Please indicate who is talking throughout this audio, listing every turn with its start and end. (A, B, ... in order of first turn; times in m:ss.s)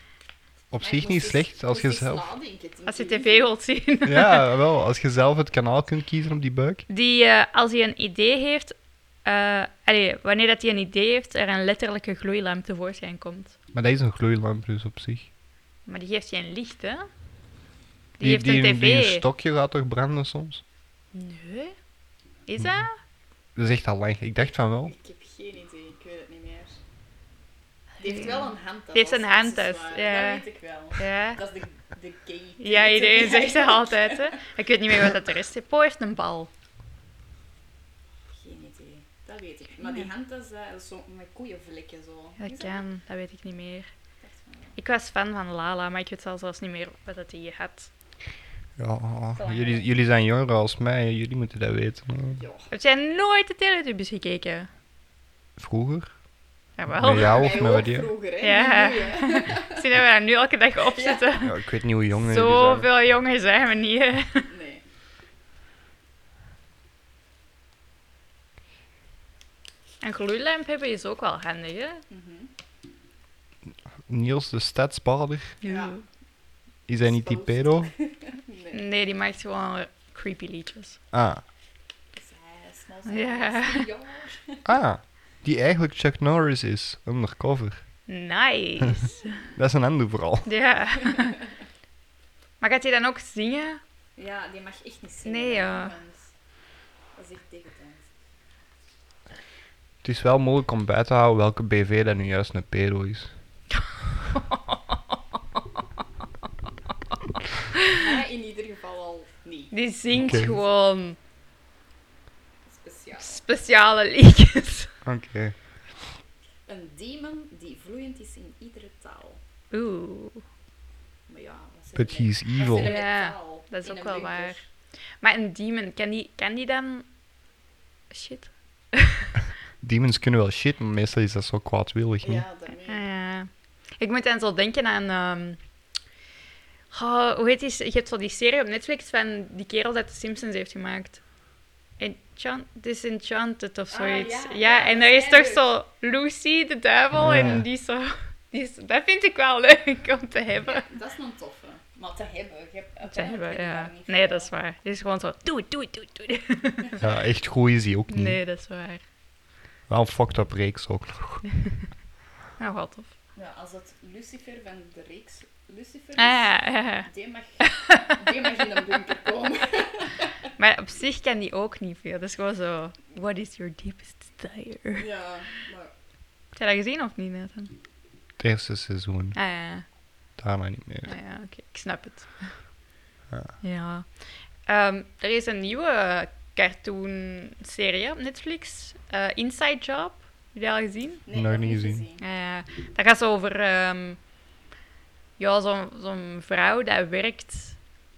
0:00.7-0:02.2 A
0:00.8-0:03.5 B
0:02.9-0:04.5 C
0:04.0-0:06.8 A
0:06.9-0:13.6 C
0:13.7-0:15.3 A
0:15.9-0:17.1 C
0:18.2-0:19.3 C
0:18.2-0:20.6 A
0:21.1-0:21.8 C
0:22.5-0:23.0 C
0:23.6-0:24.9 A
0:24.9-0:26.8 B
0:28.0-0:30.4 C
0:28.0-0:34.4 B
0:31.0-0:31.4 C
0:32.6-0:36.5 C
0:38.3-0:42.8 B
0:42.4-0:43.9 C
0:44.2-0:44.8 B
0:44.8-0:47.9 C
0:48.8-0:52.4 A
0:49.4-0:49.8 C
0:52.4-0:52.7 B
0:52.7-0:54.7 C
0:55.6-0:56.1 A
0:56.8-0:57.5 C
0:57.0-0:58.1 A
0:57.2-0:59.8 B
0:58.4-1:01.6 C
1:00.9-1:01.3 B
1:01.4-1:02.9 A
1:02.2-1:04.5 C
1:04.4-1:04.8 B
1:10.0-1:12.0 C
1:12.1-1:12.5 B
1:14.1-1:15.6 A
1:15.6-1:16.0 C
1:15.6-1:16.0 B
1:16.9-1:17.9 A
1:16.9-1:18.8 B
1:18.7-1:21.0 C
1:21.1-1:21.4 A
1:22.1-1:24.7 B
1:23.1-1:23.9 C
1:24.6-1:27.8 A
1:28.1-1:29.4 C
1:29.2-1:29.6 B
1:29.6-1:30.5 A
1:30.5-1:31.4 C
1:31.2-1:31.4 B
1:32.6-1:33.8 C
1:34.2-1:36.3 B
1:35.2-1:35.9 C
1:37.1-1:38.0 B
1:40.0-1:43.3 A
1:44.3-1:45.0 C
1:47.9-1:50.6 B
1:49.7-1:51.2 C
1:50.1-1:50.5 A
1:52.7-1:53.4 B
1:53.2-1:54.9 C
1:55.0-1:55.6 A
1:56.7-1:59.4 B
1:59.7-2:00.4 C
2:01.3-2:04.6 B
2:02.0-2:02.9 A
2:02.8-2:04.6 C
2:05.2-2:07.1 C
2:08.1-2:09.3 C
2:09.8-2:12.4 A
2:12.2-2:13.0 B
2:12.8-2:15.6 C
2:16.9-2:21.2 C
2:22.0-2:30.9 C
2:23.9-2:25.7 B
2:27.2-2:27.6 A
2:30.7-2:34.5 B
2:33.1-2:37.0 C
2:37.0-2:38.4 A
2:38.1-2:39.0 C
2:39.9-2:41.4 A
2:42.6-2:43.1 C
2:43.4-2:50.4 B
2:46.2-2:47.1 C
2:47.7-2:48.2 C
2:50.6-2:55.1 C
2:55.0-2:55.9 B
2:56.6-2:57.8 C
2:58.4-2:59.4 A
2:59.4-2:59.8 C
3:00.4-3:01.1 A
3:01.0-3:02.6 C
3:03.6-3:11.2 C
3:11.3-3:12.2 B
3:11.3-3:12.1 A
3:12.2-3:14.2 C
3:15.4-3:17.8 C